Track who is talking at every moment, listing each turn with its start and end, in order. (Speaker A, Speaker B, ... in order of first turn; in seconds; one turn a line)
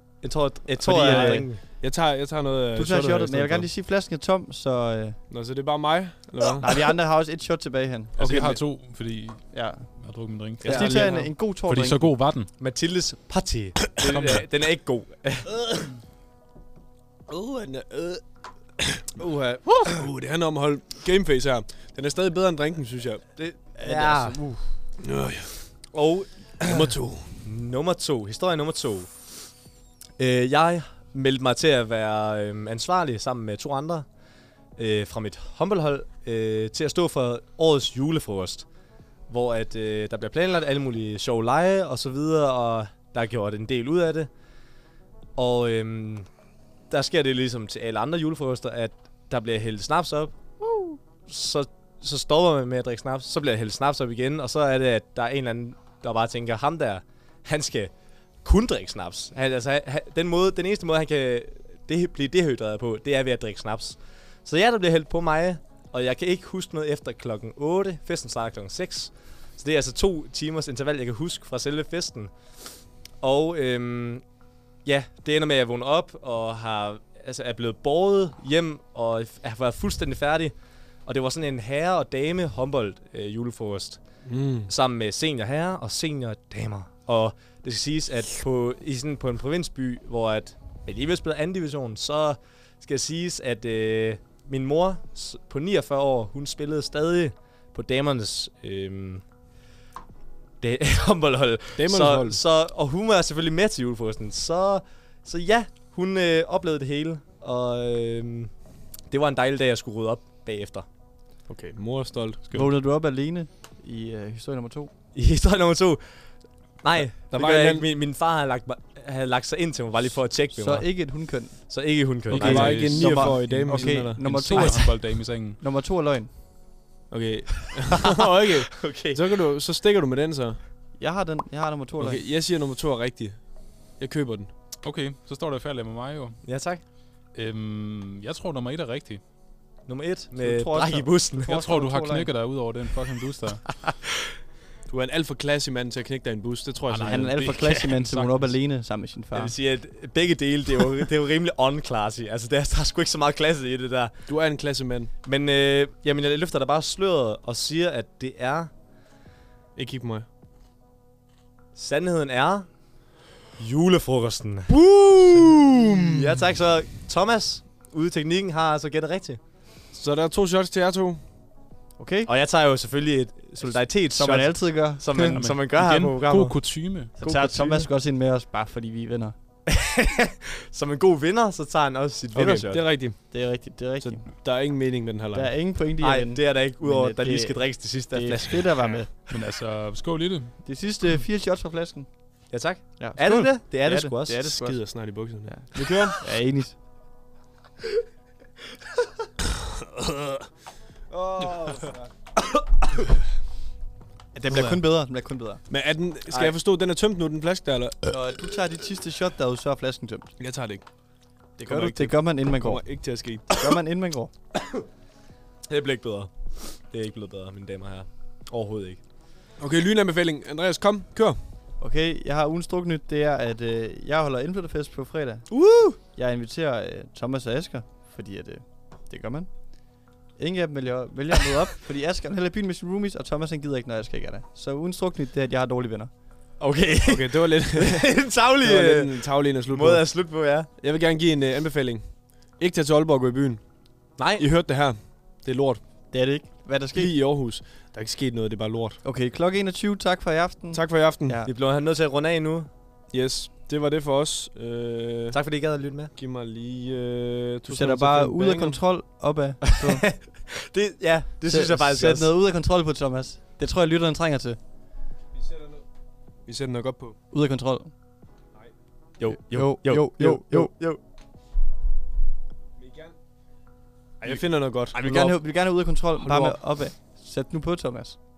Speaker A: 0.2-1.6
Speaker B: 0.8-3.7
Speaker C: 1.0-1.4
Speaker C: 2.7-5.2
Speaker B: 5.3-6.9
Speaker C: 6.6-8.6
Speaker D: 8.2-12.5
Speaker B: 8.2-8.6
Speaker C: 9.5-12.1
Speaker B: 10.6-11.3
Speaker A: 12.6-15.5
Speaker D: 14.0-14.5
Speaker B: 17.3-18.3
Speaker A: 19.2-19.9
Speaker B: 19.6-23.2
Speaker A: 23.4-24.5
Speaker C: 23.7-24.7
Speaker B: 25.0-25.8
Speaker A: 25.9-29.5
Speaker B: 26.6-27.4
Speaker A: 30.2-34.1
Speaker A: 34.8-38.6
Speaker A: 39.3-44.3
Speaker A: 45.4-46.3
Speaker A: 46.9-50.3
Speaker C: 50.6-51.0
Speaker A: 51.3-74.3
Speaker A: 74.8-99.2
Speaker B: 84.2-84.7
Speaker A: 100.6-108.5
Speaker B: 101.8-102.4
Speaker A: 109.0-110.9
Speaker B: 111.5-112.5
Speaker D: 112.4-112.7
Speaker C: 112.5-114.9
Speaker A: 115.1-122.9
Speaker B: 117.3-117.8
Speaker C: 120.5-121.6
Speaker D: 122.3-125.6
Speaker B: 122.3-124.8
Speaker C: 122.4-126.3
Speaker B: 127.1-130.6
Speaker A: 128.7-129.4
Speaker C: 131.0-132.2
Speaker B: 132.0-134.5
Speaker D: 134.8-136.4
Speaker A: 136.4-136.8
Speaker D: 137.3-139.2
Speaker A: 139.8-141.6
Speaker C: 140.3-142.3
Speaker D: 141.5-143.8
Speaker B: 144.9-147.5
Speaker D: 146.9-148.6
Speaker C: 147.0-149.5
Speaker A: 149.3-154.2
Speaker B: 154.3-155.1
Speaker A: 155.2-158.7
Speaker B: 159.7-160.2
Speaker A: 161.7-164.7
Speaker A: 166.1-169.4
Speaker B: 169.9-171.2
Speaker C: 172.0-172.3
Speaker A: 172.2-177.9
Speaker C: 173.6-175.4
Speaker D: 175.3-177.1
Speaker C: 177.2-179.3
Speaker A: 179.7-182.9
Speaker B: 182.3-183.3
Speaker C: 183.2-184.4
Speaker B: 184.0-185.6
Speaker C: 185.3-189.2
Speaker A: 186.0-188.9
Speaker D: 189.3-190.6
Speaker C: 190.6-192.3
Speaker A: 192.5-194.5
Speaker C: 192.9-196.8
Speaker B: 194.4-196.2
Speaker B: 201.1-201.9
Speaker C: 204.3-205.6
Speaker B: 204.5-204.8
Speaker B: 205.7-208.1
Speaker A: 206.3-206.6
Speaker C: 208.1-210.3
Speaker B: 210.4-210.9
Speaker B: 211.6-213.7
Speaker C: 211.6-214.3
Speaker A: 215.7-219.0
Speaker B: 219.6-221.4
Speaker C: 221.8-236.1
Speaker A: 225.5-226.0
Speaker A: 236.6-240.7
Speaker B: 237.1-238.1
Speaker B: 238.6-243.7
Speaker A: 244.2-244.4
Speaker B: 244.4-245.8
Speaker C: 246.1-247.1
Speaker B: 246.9-249.0
Speaker C: 249.0-251.5
Speaker B: 250.7-251.4
Speaker A: 251.4-252.7
Speaker B: 253.1-255.4
Speaker A: 255.3-256.1
Speaker B: 256.1-258.8
Speaker C: 257.7-260.1
Speaker A: 259.8-262.3
Speaker C: 261.4-264.6
Speaker B: 265.3-265.8
Speaker B: 266.4-267.2
Speaker C: 267.3-267.9
Speaker A: 269.2-271.0
Speaker C: 269.3-270.7
Speaker B: 272.8-273.2
Speaker B: 274.2-275.4
Speaker C: 274.9-278.1
Speaker B: 276.1-276.6